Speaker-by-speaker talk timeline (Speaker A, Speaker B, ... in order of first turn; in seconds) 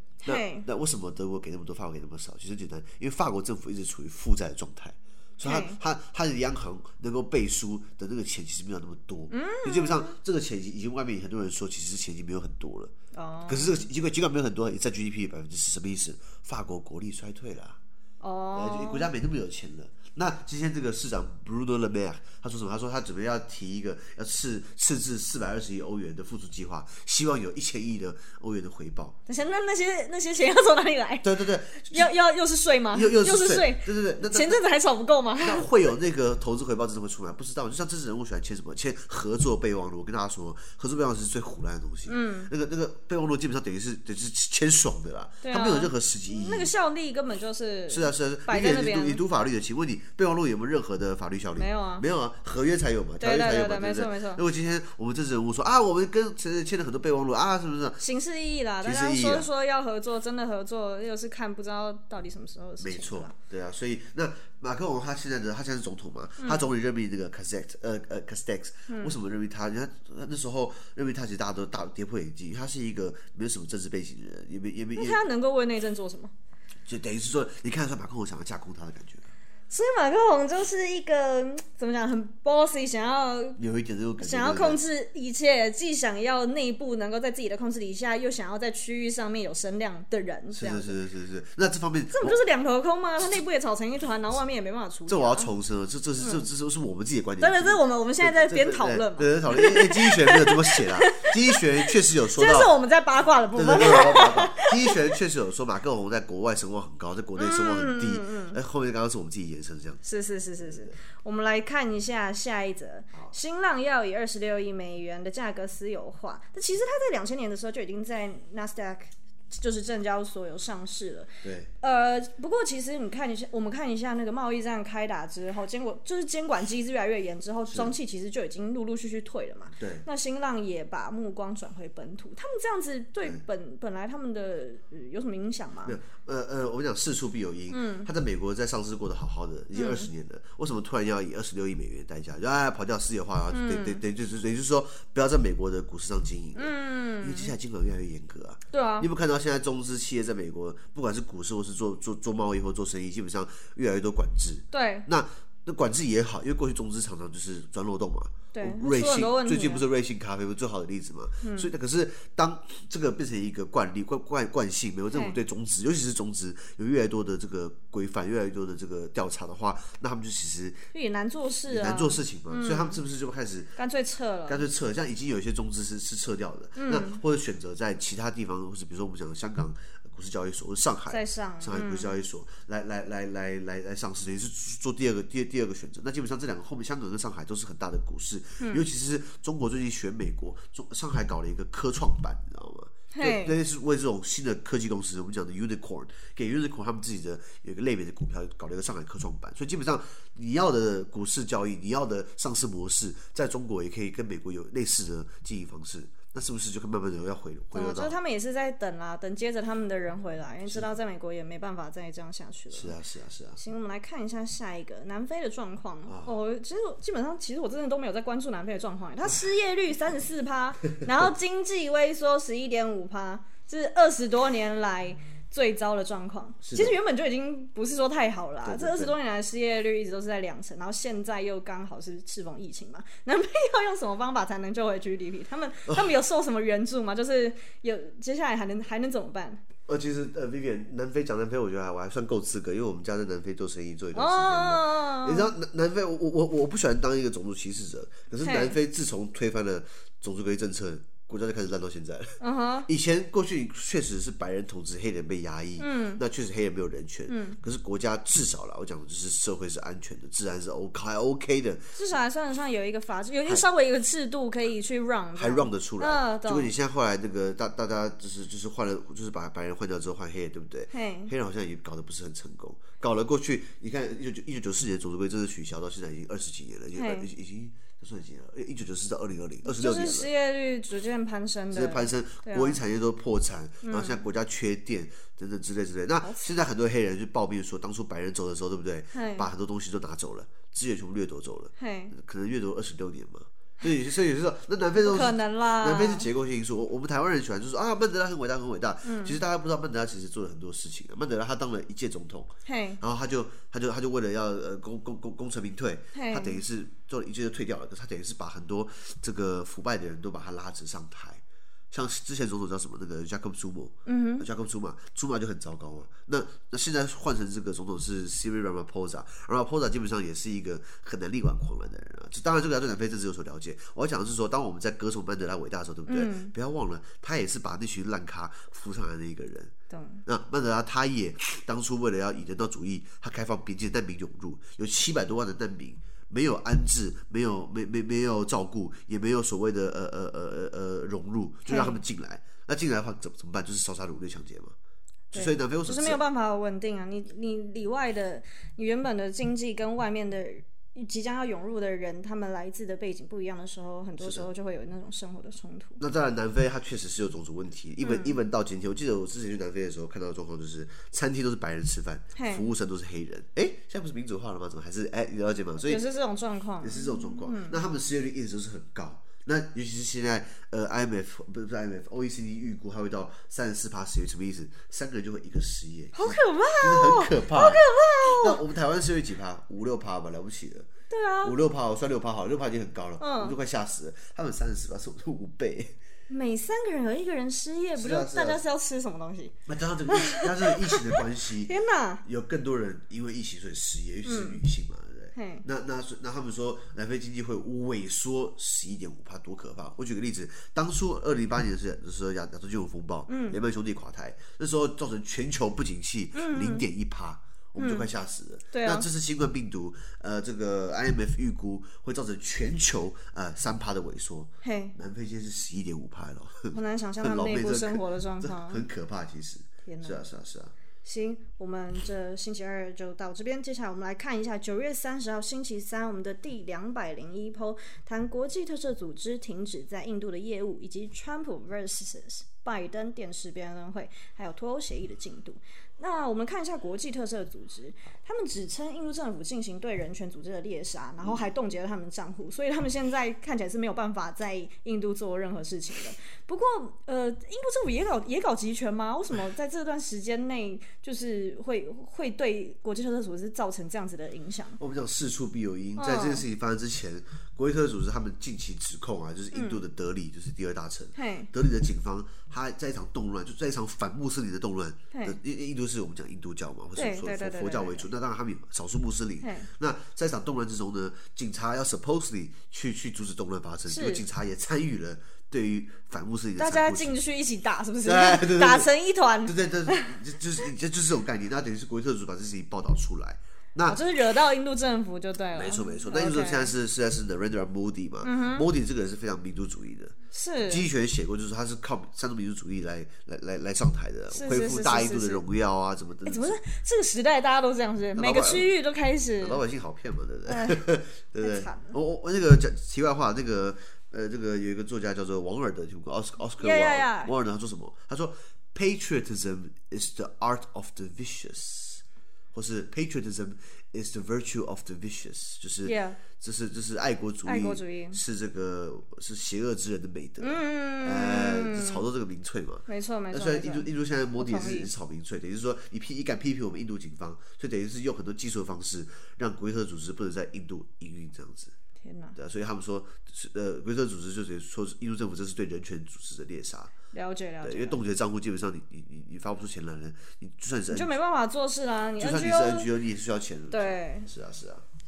Speaker A: 0.2-0.7, 5.4-5.8, 9.3-10.2, 13.1-13.8, 18.2-19.1, 29.3-31.3, 31.9-35.7, 42.0-42.5, 45.4-49.2, 51.6-52.0, 53.2-54.4, 58.0-63.3, 66.4-66.7, 68.9-69.1, 75.0-76.3, 79.7-83.6, 84.2-91.0, 92.1-95.5, 96.2-96.5, 97.4-105.0, 107.4-108.6, 110.0-136.0, 137.7-138.1, 139.7-140.1, 143.5-144.0, 146.5-147.5, 148.7-149.1, 154.7-155.1, 158.5-159.8, 161.4-161.7, 165.1-165.4, 170.9-173.0, 173.8-174.6, 176.8-177.2, 181.1-182.1, 188.6-188.8, 193.1-193.6, 207.7-212.9, 213.6-239.6, 244.1-245.5, 248.4-248.8, 252.4-252.9, 255.8-256.2, 257.3-257.6, 261.9-266.7, 270.9-271.3, 276.9-277.3, 279.6-282.8, 283.8-284.2, 286.2-286.5, 289.1-289.5, 291.8-292.1, 295.0-296.3, 299.0-299.4, 302.6-303.0, 306.1-306.6, 314.1-314.4, 326.1-326.5, 329.9-330.2, 341.7-342.0, 345.3-356.0, 358.0-358.4, 362.3-362.6, 365.8-367.8, 376.1-378.6, 381.1-381.6, 383.2-383.6, 386.3-389.5, 390.1-392.2, 394.2-394.6, 395.3-395.6, 403.3-403.6, 406.3-406.9, 407.8-408.1, 408.7-409.1, 414.6-414.9, 416.7-418.8, 419.9-420.2, 421.0-454.8, 456.0-456.4, 459.5-459.8, 461.1-461.5, 465.1-465.4, 466.9-468.1, 469.4-469.7, 473.9-474.2, 476.6-480.2, 483.9-486.7, 488.2-488.7, 490.3-490.9, 494.3-495.4, 496.2-499.6, 500.5-500.9, 501.4-502.0, 506.6-507.3, 515.8-516.2, 517.4-518.2, 520.4-522.0, 522.9-524.9, 532.0-532.4, 537.1-538.0, 540.9-542.9, 543.7-544.3
Speaker B: 0.2-12.9, 13.5-17.8, 18.5-29.1, 31.2-32.1, 32.9-34.6, 35.4-46.7, 47.9-58.0, 58.8-59.5, 62.8-75.2, 76.8-79.3, 83.6-84.8, 90.5-92.4, 95.1-102.7, 103.5-110.0, 110.6-111.0, 121.4-121.7, 127.7-127.9, 129.8-130.0, 135.8-170.8, 171.7-173.7, 174.5-208.1, 212.7-213.6, 216.1-216.3, 226.6-226.9, 228.6-229.1, 235.9-236.1, 239.9-261.9, 265.4-280.3, 281.7-329.7, 330.2-344.7, 345.3-346.2, 354.2-354.4, 356.0-366.0, 366.8-380.9, 381.4-385.9, 387.9-388.6, 389.6-391.7, 392.2-420.7, 454.8-477.2, 478.0-478.9, 479.4-484.0, 485.5-490.1, 490.6-496.6, 498.1-498.7, 499.4-512.0, 512.5-531.7, 532.3-536.9, 537.6-541.1, 542.2-544.8